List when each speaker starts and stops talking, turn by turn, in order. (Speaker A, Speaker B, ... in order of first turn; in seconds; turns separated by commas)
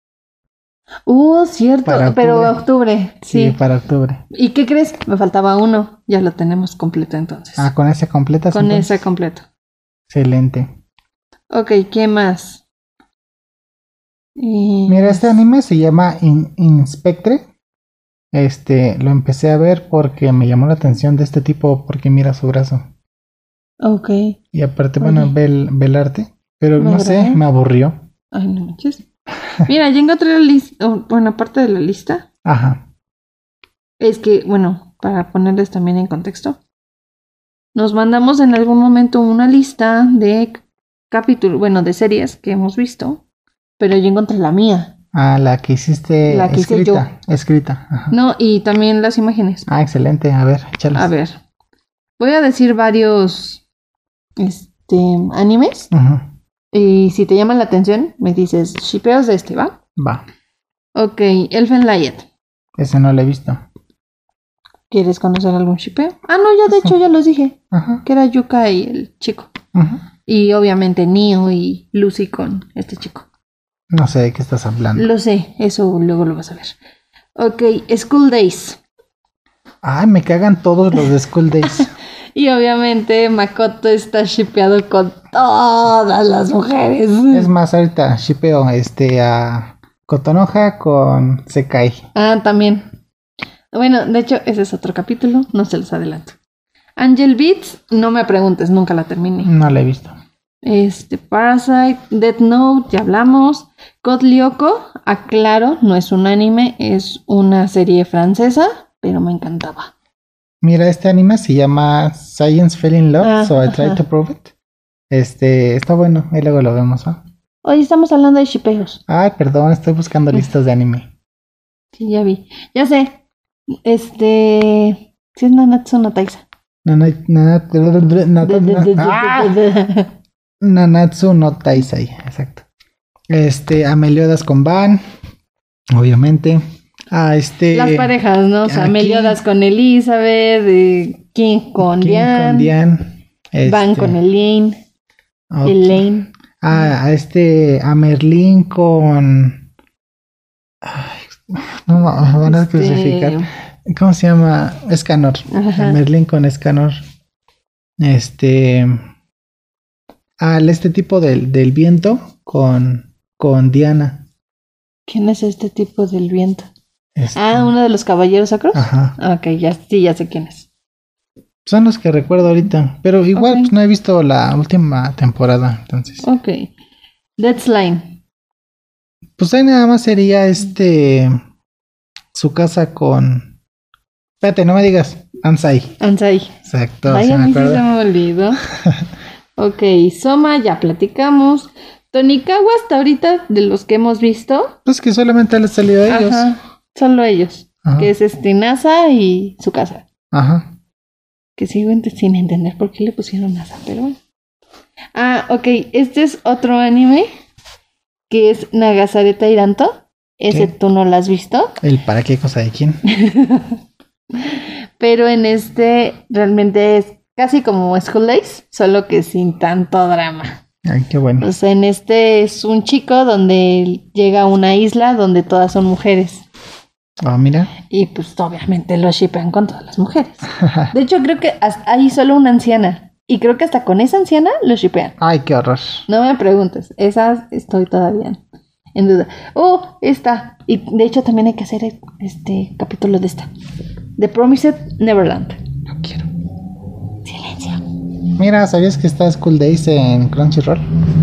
Speaker A: 1.1-3.6, Speaker B: 1.9-2.6, Speaker B: 3.2-4.2, Speaker A: 4.3-7.7, Speaker B: 7.6-9.0, Speaker A: 8.5-9.4, Speaker B: 10.1-10.7, Speaker A: 11.5-12.6, Speaker A: 14.4-15.3, Speaker B: 14.9-17.4, Speaker B: 18.3-22.8, Speaker A: 23.8-24.4, Speaker B: 24.5-28.0, Speaker A: 25.0-25.3, Speaker A: 26.8-27.4, Speaker A: 28.3-29.0, Speaker A: 29.7-32.3, Speaker B: 32.5-32.8, Speaker A: 34.0-36.6, Speaker A: 37.8-43.2, Speaker A: 43.8-44.9, Speaker B: 45.1-48.1, Speaker A: 46.3-47.1, Speaker A: 48.1-49.6, Speaker B: 49.7-51.1, Speaker A: 50.9-51.4, Speaker A: 52.2-53.6, Speaker A: 54.4-55.9, Speaker B: 55.9-56.3, Speaker A: 56.7-59.8, Speaker B: 60.0-60.2, Speaker A: 61.0-62.3, Speaker B: 62.8-63.6, Speaker A: 64.9-69.5, Speaker B: 67.7-68.0, Speaker B: 69.7-70.0, Speaker A: 70.3-73.2, Speaker B: 73.9-75.1, Speaker A: 75.0-76.8, Speaker A: 77.4-78.8, Speaker B: 79.8-81.9, Speaker A: 81.7-87.5, Speaker B: 87.3-92.0, Speaker A: 92.2-92.8, Speaker A: 93.7-96.3, Speaker A: 97.0-99.5, Speaker B: 99.4-100.2, Speaker A: 100.6-109.9, Speaker B: 110.6-114.5, Speaker A: 113.2-114.0, Speaker B: 115.1-117.2, Speaker A: 117.6-119.0, Speaker B: 119.1-121.1, Speaker A: 122.0-123.2, Speaker A: 123.7-126.4, Speaker B: 126.8-129.6, Speaker A: 128.4-130.1, Speaker B: 130.6-132.7, Speaker B: 133.3-135.0, Speaker B: 135.9-138.1, Speaker A: 137.7-142.7, Speaker B: 138.6-139.4, Speaker B: 141.8-144.2, Speaker A: 143.7-144.8, Speaker B: 145.5-146.0, Speaker A: 145.7-146.9, Speaker B: 146.6-149.7, Speaker B: 150.8-157.0, Speaker A: 152.4-153.5, Speaker A: 155.5-156.0, Speaker B: 158.0-159.0, Speaker B: 160.4-164.2, Speaker A: 165.1-166.7, Speaker B: 167.2-167.7, Speaker A: 167.3-170.7, Speaker B: 168.7-169.2, Speaker B: 171.7-176.3, Speaker A: 173.3-173.7, Speaker A: 176.2-176.7, Speaker A: 177.4-178.2, Speaker B: 179.4-181.4, Speaker B: 182.3-183.5, Speaker B: 184.4-186.0, Speaker A: 186.0-188.6, Speaker B: 186.7-187.8, Speaker B: 188.8-189.1, Speaker A: 189.6-194.8, Speaker B: 194.9-196.5, Speaker A: 196.1-200.1, Speaker B: 197.8-198.1, Speaker B: 200.3-200.7, Speaker A: 201.6-204.2, Speaker A: 205.2-207.3, Speaker A: 208.3-211.8, Speaker B: 211.8-213.0, Speaker A: 213.1-213.8, Speaker A: 214.4-220.6, Speaker B: 220.8-221.5, Speaker A: 221.4-226.4, Speaker B: 227.2-227.7, Speaker A: 227.9-235.2, Speaker B: 230.6-230.9, Speaker B: 235.2-236.1, Speaker A: 236.1-238.4, Speaker A: 238.9-243.5, Speaker A: 244.2-245.6, Speaker B: 245.9-246.3, Speaker A: 247.2-247.8, Speaker B: 248.4-250.8